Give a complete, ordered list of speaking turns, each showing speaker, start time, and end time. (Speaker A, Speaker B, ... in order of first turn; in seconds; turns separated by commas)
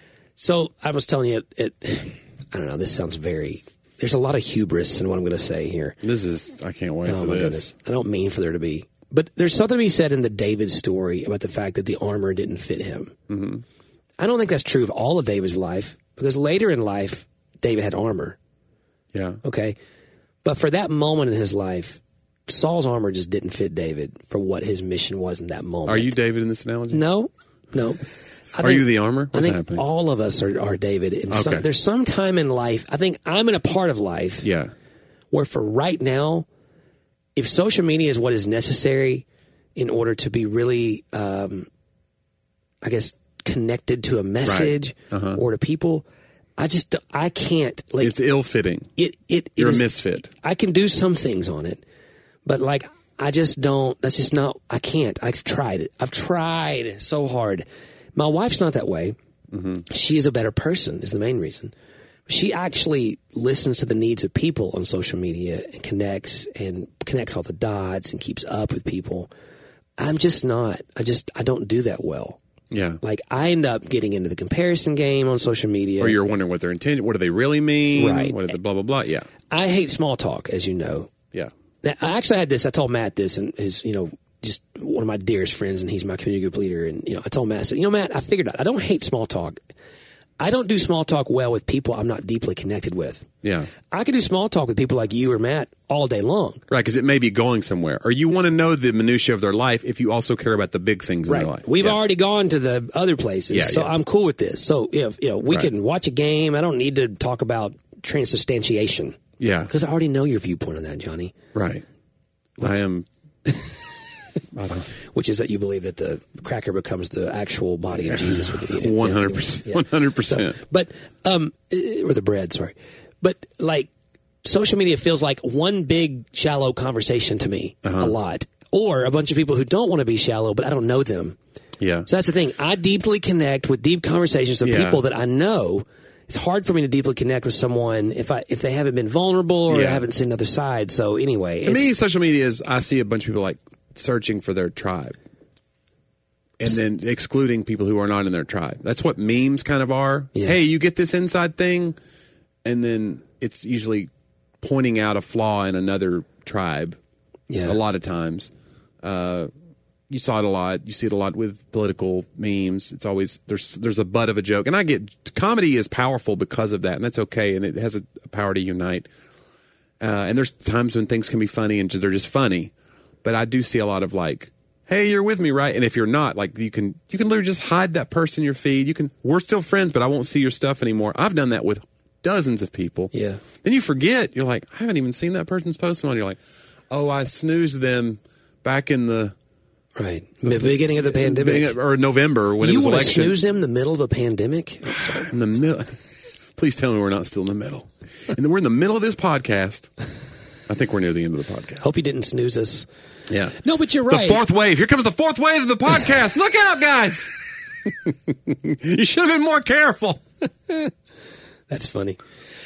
Speaker A: 0.4-6.0, Speaker B: 6.0-7.7, Speaker A: 7.0-13.2, Speaker B: 13.3-13.6, Speaker A: 14.2-18.4, Speaker B: 19.1-19.4, Speaker A: 19.4-19.8, Speaker A: 20.4-26.1, Speaker B: 25.9-27.0, Speaker A: 26.9-34.5, Speaker B: 28.6-29.8, Speaker B: 31.3-31.7, Speaker B: 34.4-34.7, Speaker A: 35.3-36.5, Speaker A: 37.4-39.2, Speaker A: 39.8-41.7, Speaker A: 42.8-46.0, Speaker B: 44.4-45.4, Speaker A: 46.6-48.1, Speaker B: 48.0-48.9, Speaker A: 49.0-51.8, Speaker B: 49.6-50.3, Speaker A: 52.4-59.1, Speaker B: 59.5-59.8, Speaker A: 59.8-61.7, Speaker A: 62.3-69.3, Speaker A: 70.0-72.4, Speaker B: 72.7-73.0, Speaker A: 73.0-76.2, Speaker B: 76.0-79.3, Speaker A: 78.0-78.5, Speaker A: 79.5-81.1, Speaker A: 81.8-89.6, Speaker A: 90.4-93.3, Speaker B: 93.4-93.7, Speaker A: 93.9-96.6, Speaker B: 96.7-102.0, Speaker A: 101.3-111.3, Speaker B: 103.5-103.9, Speaker B: 109.4-109.7, Speaker B: 111.5-111.8, Speaker B: 112.6-113.1, Speaker B: 114.5-114.9, Speaker A: 115.0-123.9, Speaker B: 118.1-120.5, Speaker A: 124.4-131.4, Speaker B: 127.8-128.1, Speaker B: 131.8-132.1, Speaker A: 132.1-141.9, Speaker B: 134.6-135.0, Speaker B: 139.7-140.1, Speaker B: 141.6-145.2, Speaker B: 146.6-152.0, Speaker B: 152.6-154.1, Speaker B: 154.6-157.0, Speaker A: 157.5-157.8, Speaker B: 157.6-159.5, Speaker B: 160.1-169.1, Speaker B: 170.0-172.7, Speaker B: 173.2-183.1, Speaker A: 183.1-183.4, Speaker B: 183.6-186.4, Speaker B: 186.9-189.3, Speaker A: 190.0-191.7, Speaker B: 190.4-193.4, Speaker A: 192.6-195.3, Speaker B: 195.2-196.0, Speaker B: 196.6-199.9, Speaker B: 200.7-201.8, Speaker A: 201.8-202.9, Speaker B: 203.3-207.3, Speaker A: 203.6-204.4, Speaker B: 207.8-210.2, Speaker A: 211.7-212.2